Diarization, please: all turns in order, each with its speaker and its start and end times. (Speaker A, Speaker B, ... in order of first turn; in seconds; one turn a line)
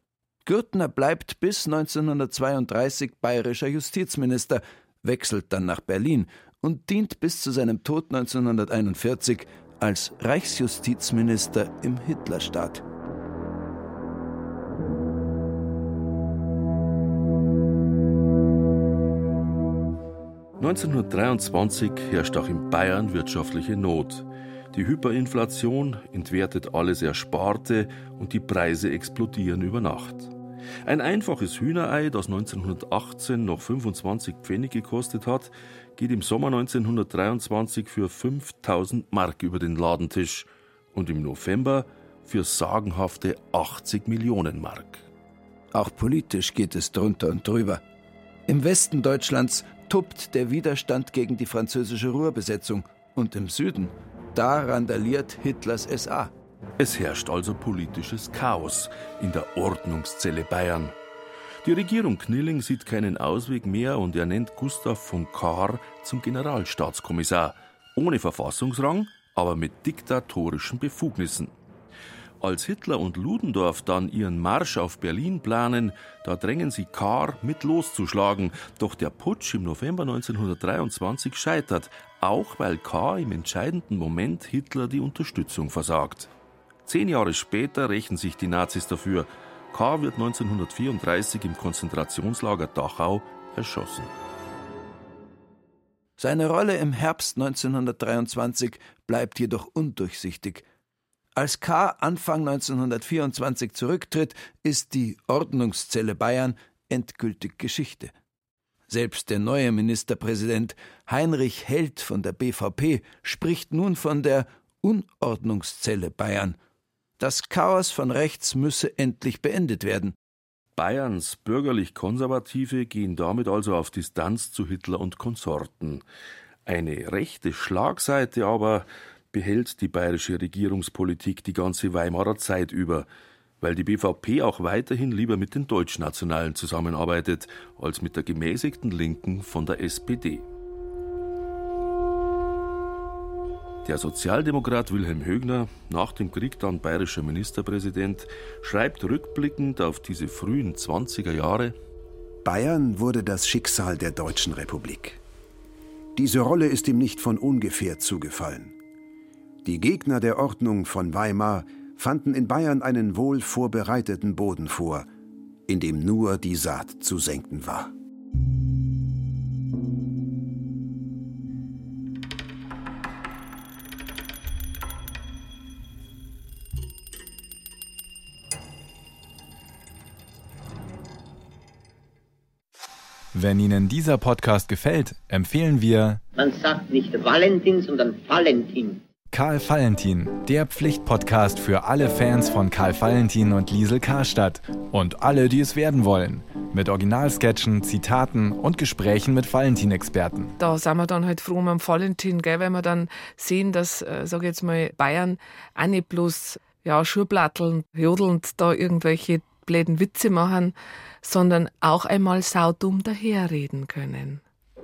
Speaker A: 0.4-12.8
Speaker B: 20.6-30.3
Speaker B: 30.8-45.0
Speaker A: 45.7-47.8
Speaker A: 48.5-56.3
Speaker B: 56.8-60.9
Speaker B: 61.6-71.5
Speaker B: 72.4-86.3
Speaker B: 86.8-94.1
Speaker A: 96.2-100.6
Speaker A: 101.3-108.1
Speaker A: 108.9-116.6
Speaker A: 117.2-120.1
Speaker B: 120.8-126.0
Speaker B: 126.7-133.1
Speaker B: 133.6-140.4
Speaker B: 143.8-151.8
Speaker C: 152.4-155.2
Speaker C: 156.1-158.7
Speaker C: 159.6-165.1
Speaker C: 165.7-167.9
Speaker D: 183.3-186.2
Speaker E: 186.3-189.0
Speaker D: 189.3-200.5
Speaker F: 200.6-214.4